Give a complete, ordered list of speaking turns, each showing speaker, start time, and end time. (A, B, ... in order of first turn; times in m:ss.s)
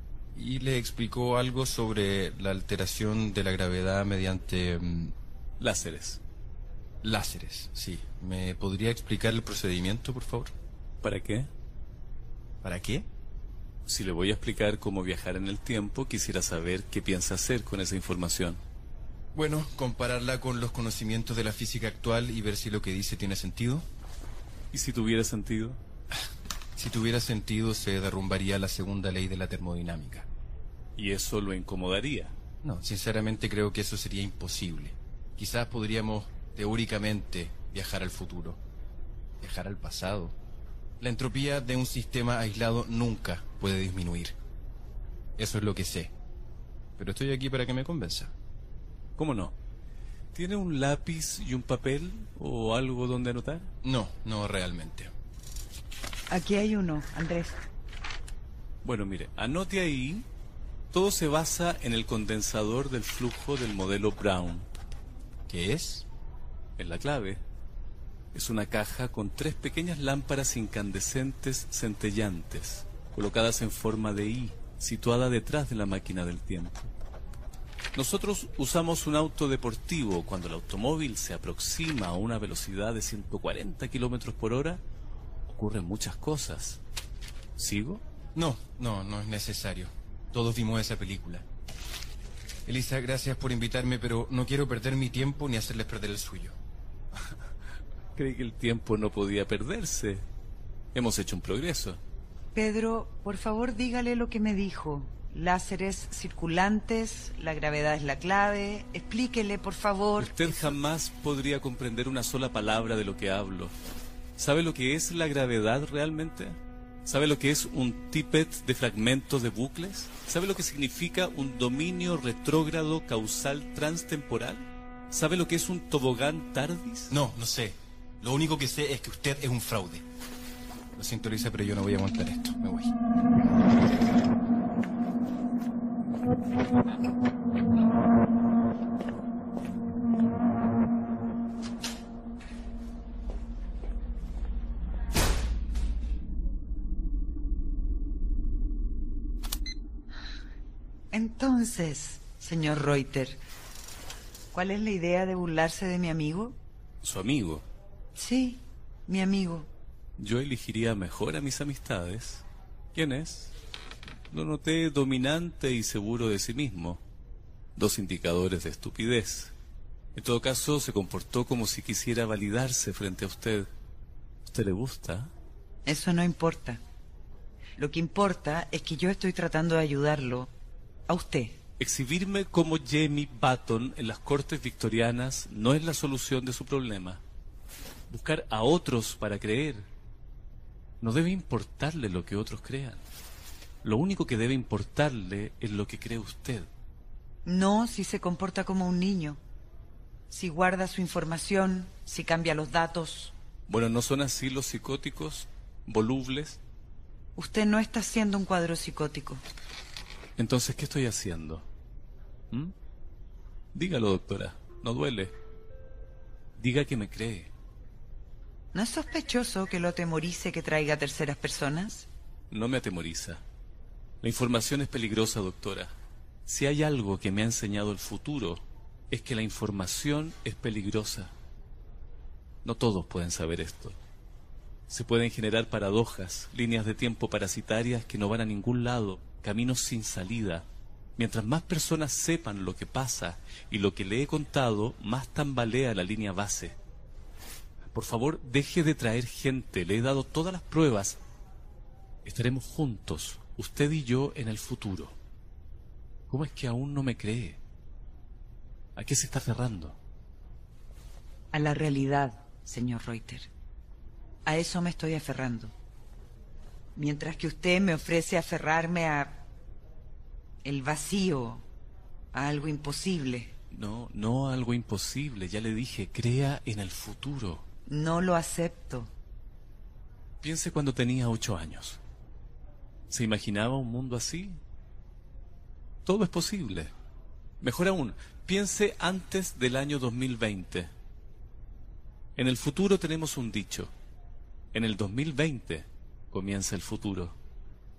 0:00.3-0:05.1 A
0:05.6-0:06.2 B
0:07.0-0:10.5 A
0:11.0-0:11.5 B
0:12.6-0:13.0 A
0:13.9-0:18.6 B
0:19.3-0:23.8 A
0:24.7-0:25.8 B
0:26.8-0:30.3 A
0:31.0-0:32.3 B
0:32.6-0:38.6 A
0:39.4-0:40.3 A
0:41.0-0:44.4 A
0:45.4-0:46.1 A
0:47.0-0:48.3 A
0:49.2-0:49.5 B
0:50.3-0:53.7 B
0:53.8-0:55.1 A
0:56.3-0:57.6 C
0:58.8-1:00.2 B
1:00.9-1:04.7 B
1:05.5-1:06.0 A
1:06.8-1:07.4 B
1:08.3-1:16.9 B
1:17.9-1:24.8 B
1:25.5-1:26.8 B
1:27.6-1:28.0 B
1:28.4-1:31.4 A
1:32.6-1:36.6 A
1:38.2-1:40.2 B
1:40.9-1:42.0 B
1:42.5-1:50.8 C
1:50.2-1:53.7 B
1:54.4-2:07.1 B
2:07.1-2:10.0 A
2:11.0-2:12.9 A
2:31.1-2:33.4 C
2:34.5-2:36.6 C
2:37.0-2:37.6 B
2:38.2-2:39.7 C
2:40.2-2:43.5 B
2:44.3-2:47.0 B
2:47.8-2:49.5 B
2:50.1-2:53.7 B
2:54.4-2:55.3 B
2:55.8-2:56.8 C
2:57.8-3:00.5 C
3:01.1-3:01.6 C
3:01.8-3:07.2 B
3:08.1-3:09.9 B
3:11.0-3:13.0 B
3:13.8-3:16.7 B
3:17.4-3:19.4 C
3:20.3-3:23.3 C
3:23.7-3:26.6 B
3:27.4-3:29.4 C
3:30.4-3:31.6 B
3:33.7-3:35.3 B
3:36.6-3:37.5 B
3:38.7-3:42.1 C
3:42.5-3:43.4 B
3:44.2-3:45.9 B
3:46.5-3:51.3 B
3:52.6-3:54.0 B
3:54.9-4:00.6 B
4:01.2-4:06.8 B
4:07.9-4:11.2 B
4:12.2-4:15.1 B
4:16.3-4:17.6 B
4:19.0-4:20.0 B
4:21.5-4:23.5 C
4:24.4-4:25.7 C
4:27.0-4:29.4 C
4:30.6-4:31.6 C
4:32.3-4:33.5 C
4:33.7-4:37.6 B
4:37.9-4:39.1 C
4:40.4-4:42.0 B
4:43.1-4:44.6 B
4:46.0-4:46.9 B
4:47.6-4:50.9 B
4:52.4-4:53.9 B
4:54.7-4:57.4 B